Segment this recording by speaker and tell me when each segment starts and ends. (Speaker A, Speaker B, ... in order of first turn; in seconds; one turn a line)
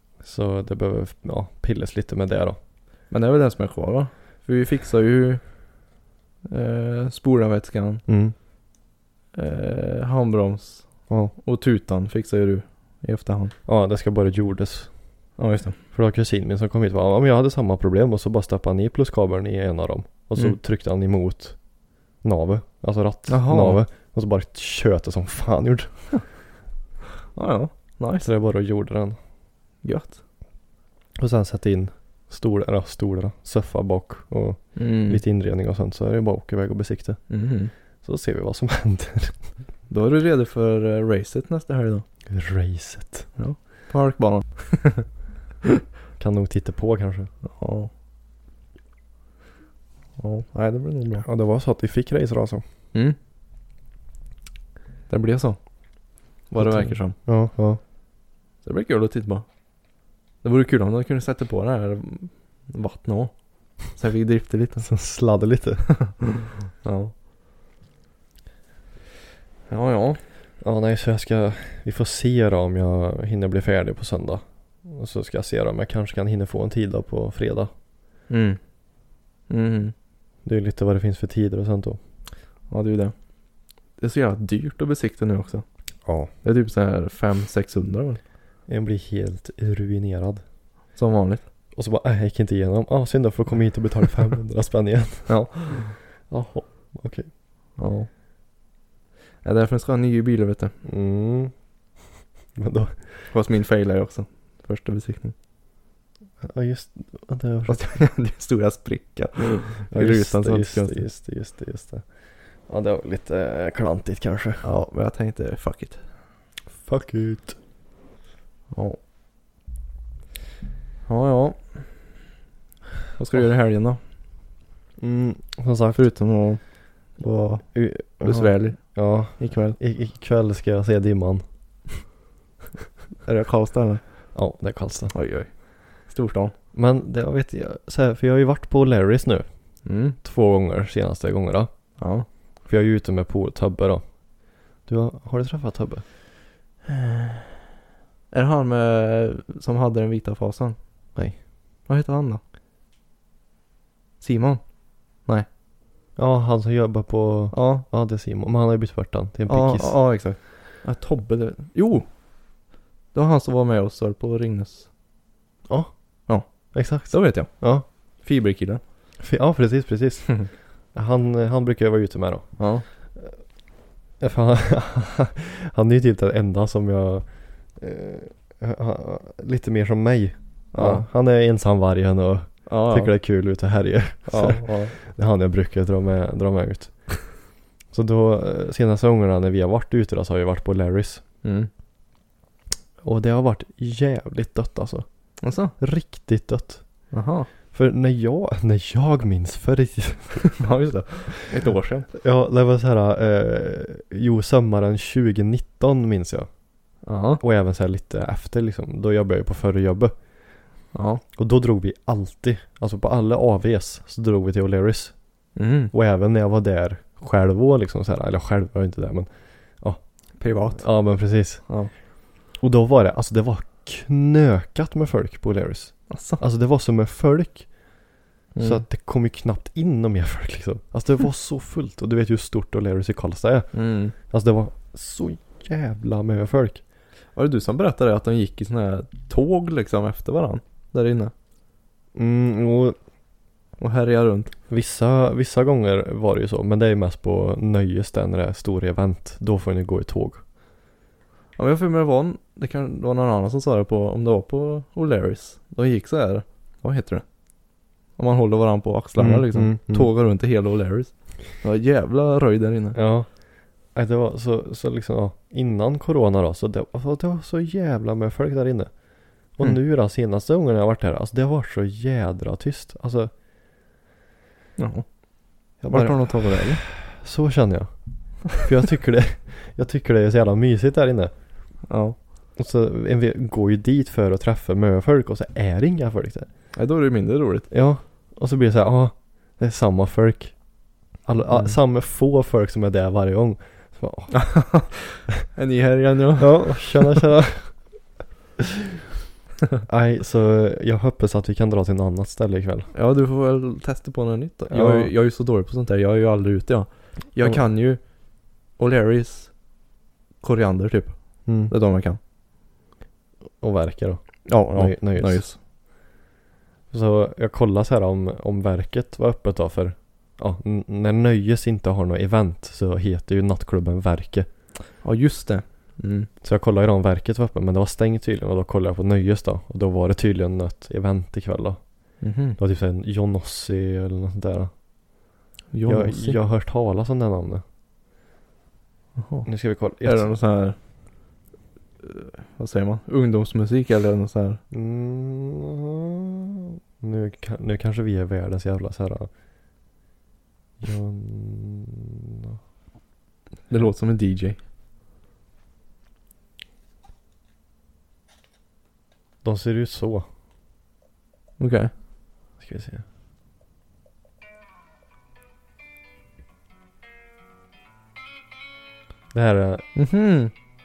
Speaker A: 0.2-2.6
Speaker B: 3.1-5.5
Speaker B: 6.5-8.0
Speaker A: 8.1-8.3
Speaker B: 9.3-13.6
Speaker A: 13.7-14.9
Speaker B: 15.4-15.8
Speaker A: 15.9-21.6
Speaker A: 22.2-26.1
Speaker B: 23.3-23.8
Speaker B: 27.4-28.3
Speaker A: 28.2-29.2
Speaker B: 29.8-30.2
Speaker A: 31.2-37.3
Speaker B: 34.8-35.2
Speaker B: 37.3-37.7
Speaker A: 38.0-39.4
Speaker B: 39.9-42.0
Speaker A: 42.3-43.3
Speaker B: 43.4-45.1
Speaker A: 46.2-47.3
Speaker B: 47.4-47.9
Speaker B: 50.2-51.3
Speaker A: 51.2-52.6
Speaker B: 55.1-55.6
Speaker B: 56.5-57.2
Speaker A: 56.6-57.8
Speaker B: 58.6-59.5
Speaker B: 60.4-64.9
Speaker A: 64.8-65.9
Speaker B: 66.8-67.1
Speaker B: 69.7-70.2
Speaker A: 70.6-77.7
Speaker B: 78.3-78.6
Speaker B: 79.5-79.9
Speaker A: 80.5-82.0
Speaker B: 82.7-83.2
Speaker B: 84.0-85.7
Speaker A: 86.0-86.3
Speaker B: 86.4-88.2
Speaker A: 88.7-90.4
Speaker B: 91.0-91.5
Speaker A: 91.8-97.3
Speaker B: 95.3-96.0
Speaker B: 97.8-98.1
Speaker B: 99.4-100.7
Speaker A: 100.8-101.5
Speaker A: 102.5-103.3
Speaker B: 103.3-105.3
Speaker A: 106.4-107.8
Speaker B: 107.7-111.0
Speaker A: 109.9-114.7
Speaker B: 114.6-116.0
Speaker A: 116.8-117.6
Speaker B: 118.7-119.0
Speaker B: 121.1-122.0
Speaker B: 123.2-124.0
Speaker A: 125.0-126.0
Speaker B: 126.0-129.8
Speaker A: 127.7-132.1
Speaker B: 133.2-134.3
Speaker A: 134.3-135.1
Speaker B: 135.1-136.5
Speaker A: 136.7-142.0
Speaker B: 139.8-140.2
Speaker B: 142.0-142.3
Speaker A: 142.7-146.1
Speaker B: 146.9-147.5
Speaker B: 148.3-150.8
Speaker A: 151.2-151.4
Speaker B: 151.9-152.4
Speaker B: 154.2-155.5
Speaker A: 156.2-160.2
Speaker B: 157.5-157.8
Speaker B: 159.5-162.1
Speaker B: 163.1-164.9
Speaker A: 165.7-167.9
Speaker B: 166.3-168.8
Speaker A: 169.2-173.3
Speaker B: 172.6-172.8
Speaker A: 174.2-191.2
Speaker B: 180.7-181.1
Speaker B: 182.7-183.1
Speaker B: 184.3-185.0
Speaker B: 191.4-191.7
Speaker A: 193.0-195.1
Speaker B: 195.4-195.8
Speaker A: 195.8-196.9
Speaker B: 197.1-197.5
Speaker A: 197.7-200.6
Speaker B: 200.6-202.1
Speaker A: 202.1-206.5
Speaker B: 207.0-207.4
Speaker A: 207.4-210.2
Speaker B: 210.9-211.2
Speaker A: 211.4-215.2
Speaker B: 215.6-215.9
Speaker A: 215.9-222.0
Speaker B: 220.4-221.1
Speaker B: 221.7-221.9
Speaker A: 222.5-228.1
Speaker B: 226.1-226.4
Speaker B: 228.5-228.8
Speaker A: 228.6-236.8
Speaker B: 233.7-234.1
Speaker B: 237.3-241.3
Speaker A: 242.2-243.0
Speaker B: 243.8-244.5
Speaker A: 244.7-250.4
Speaker B: 251.6-257.2
Speaker B: 258.2-263.0
Speaker A: 259.2-260.1
Speaker A: 262.9-273.3
Speaker B: 274.8-276.8
Speaker A: 275.8-281.3
Speaker B: 281.9-282.2
Speaker A: 282.6-286.5
Speaker B: 286.7-287.7
Speaker A: 287.7-294.9
Speaker B: 291.5-291.8
Speaker B: 294.3-297.2
Speaker A: 296.4-297.9
Speaker A: 299.9-302.9
Speaker B: 302.9-308.1
Speaker A: 304.7-305.1
Speaker B: 308.7-309.5
Speaker B: 310.4-312.2
Speaker A: 311.5-311.7
Speaker A: 313.6-315.5
Speaker B: 314.4-315.6
Speaker A: 316.9-324.5
Speaker B: 325.0-326.3
Speaker A: 326.4-334.7
Speaker B: 332.2-332.6
Speaker B: 335.7-336.4
Speaker A: 335.9-337.6
Speaker B: 339.2-339.5
Speaker A: 339.4-340.3
Speaker B: 340.0-340.8
Speaker B: 342.0-344.6
Speaker A: 344.7-349.3
Speaker A: 350.8-352.6
Speaker B: 353.7-354.6
Speaker A: 359.4-360.3
Speaker B: 361.6-361.9
Speaker A: 362.6-363.1
Speaker A: 369.3-369.9
Speaker B: 369.9-370.5